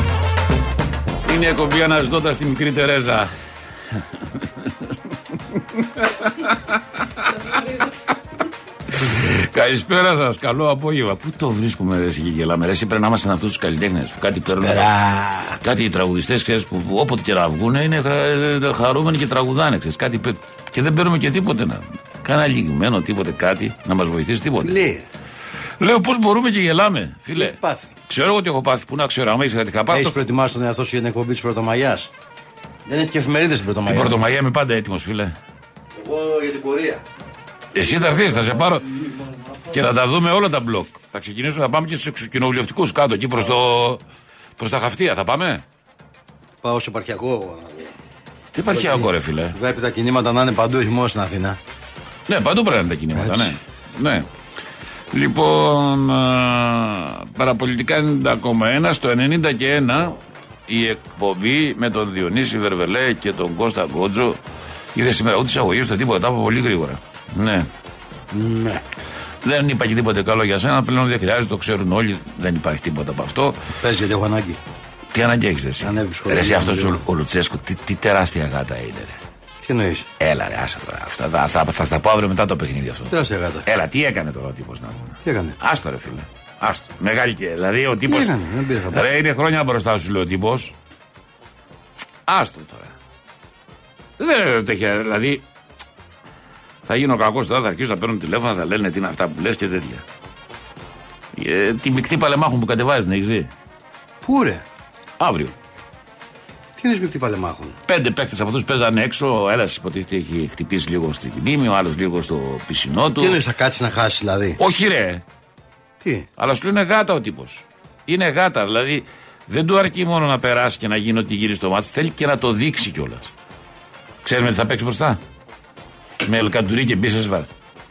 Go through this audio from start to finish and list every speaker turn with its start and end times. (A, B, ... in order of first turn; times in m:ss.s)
0:01.2-0:03.3 A
0:05.7-0:07.9 A
0:08.9-0:14.9 A
0:14.6-0:15.6 B
0:15.6-0:24.8 A
0:24.6-0:25.1 B
0:25.8-0:30.1 A
0:27.4-0:27.9 B
0:29.9-0:32.1 B
0:32.8-0:34.2 B
0:33.8-0:35.3 A
0:36.0-0:37.0 B
0:37.7-0:38.8 A
0:37.7-0:38.6 B
0:39.7-0:44.0 A
0:44.6-0:45.6 A
0:46.6-0:47.9 B
0:48.5-0:49.6 A
0:48.7-0:51.6 B
0:52.3-0:54.3 A
0:53.1-0:53.6 B
0:55.1-1:00.2 A
1:00.7-1:04.4 A
1:04.9-1:07.7 A
1:08.3-1:08.8 B
1:09.4-1:13.6 A
1:13.8-1:14.6 B
1:15.1-1:19.2 A
1:15.8-1:17.0 B
1:19.6-1:20.1 B
1:20.2-1:28.3 A
1:23.1-1:23.7 B
1:25.2-1:25.6 B
1:28.0-1:29.1 B
1:28.9-1:30.7 A
1:32.3-1:32.9 A
1:34.2-1:35.4 A
1:36.8-1:40.0 A
1:41.3-1:43.5 A
1:44.2-1:44.6 B
1:45.2-1:45.5 A
1:46.8-1:47.7 B
1:47.9-1:53.4 A
1:53.2-1:54.6 B
1:54.6-1:55.2 A
1:56.0-1:56.3 B
1:56.4-2:03.3 A
2:04.2-2:05.2 A
2:06.2-2:07.5 A